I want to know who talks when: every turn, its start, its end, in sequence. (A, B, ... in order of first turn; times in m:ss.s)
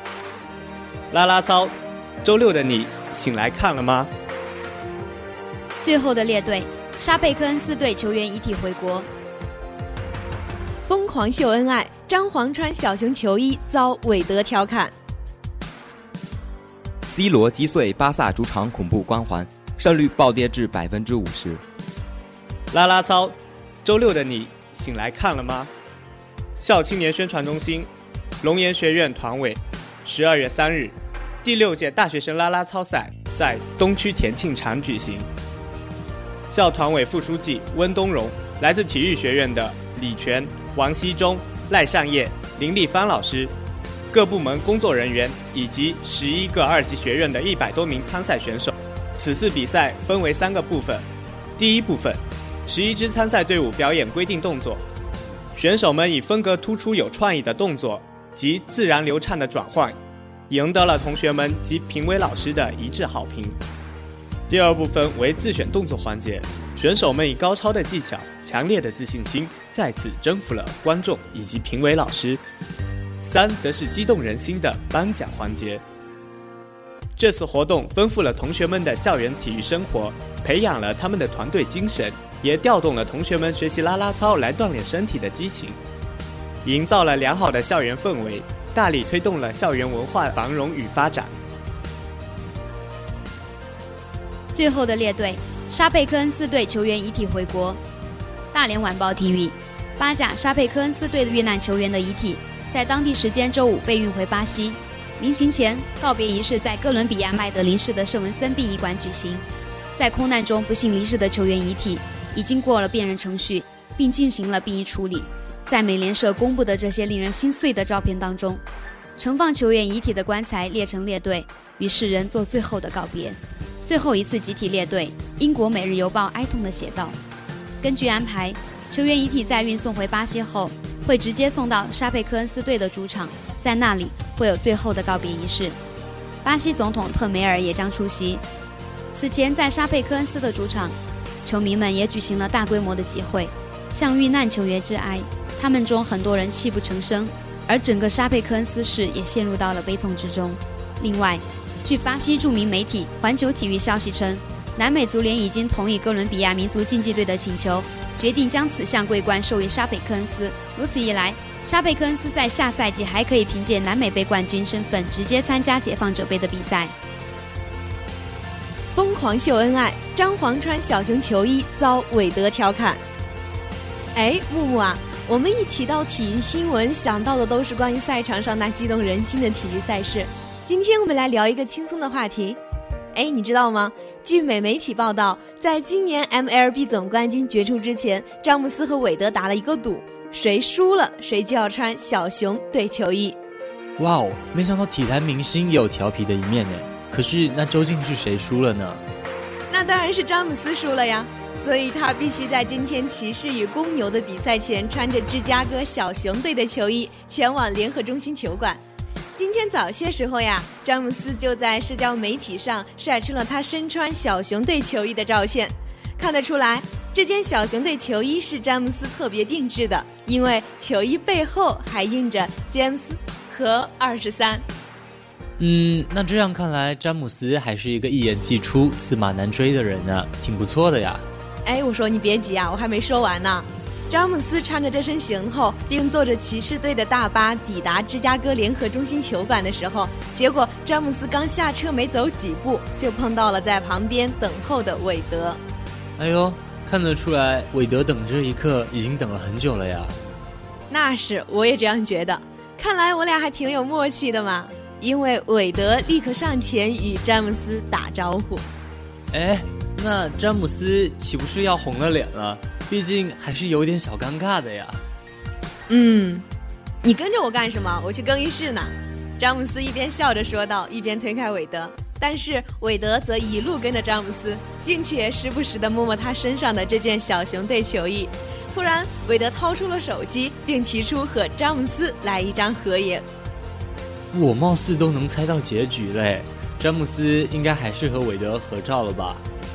0:01.1-0:04.1 A
0:05.8-0:09.1 B
0:10.9-0:14.9 C
0:17.1-0:21.6 D
0:22.7-0:25.7 A
0:26.6-0:27.9 A
0:28.4-0:35.3 A
0:36.5-0:43.5 A
0:44.1-0:51.1 A
0:51.6-0:54.8 A
0:55.6-1:00.0 A
1:00.5-1:03.6 A
1:04.5-1:12.4 A
1:13.2-1:15.8 A
1:17.2-1:25.8 A
1:26.6-1:31.3 A
1:34.5-1:37.8 B
1:38.5-1:49.4 B
1:50.0-1:58.6 B
1:59.2-2:07.2 B
2:07.8-2:15.8 B
2:16.4-2:18.4 B
2:19.1-2:47.0 B
2:48.9-2:53.0 C
2:54.2-3:02.6 C
3:03.1-3:13.4 C
3:14.0-3:19.0 E
3:19.7-3:28.8 C
3:29.4-3:44.6 C
3:45.6-3:51.2 E
3:51.6-4:05.6 C
4:06.2-4:10.2 E
4:10.9-4:18.7 C
4:19.3-4:25.0 E
4:25.9-4:26.4 C
4:27.0-4:43.3 C
4:44.3-4:49.4 E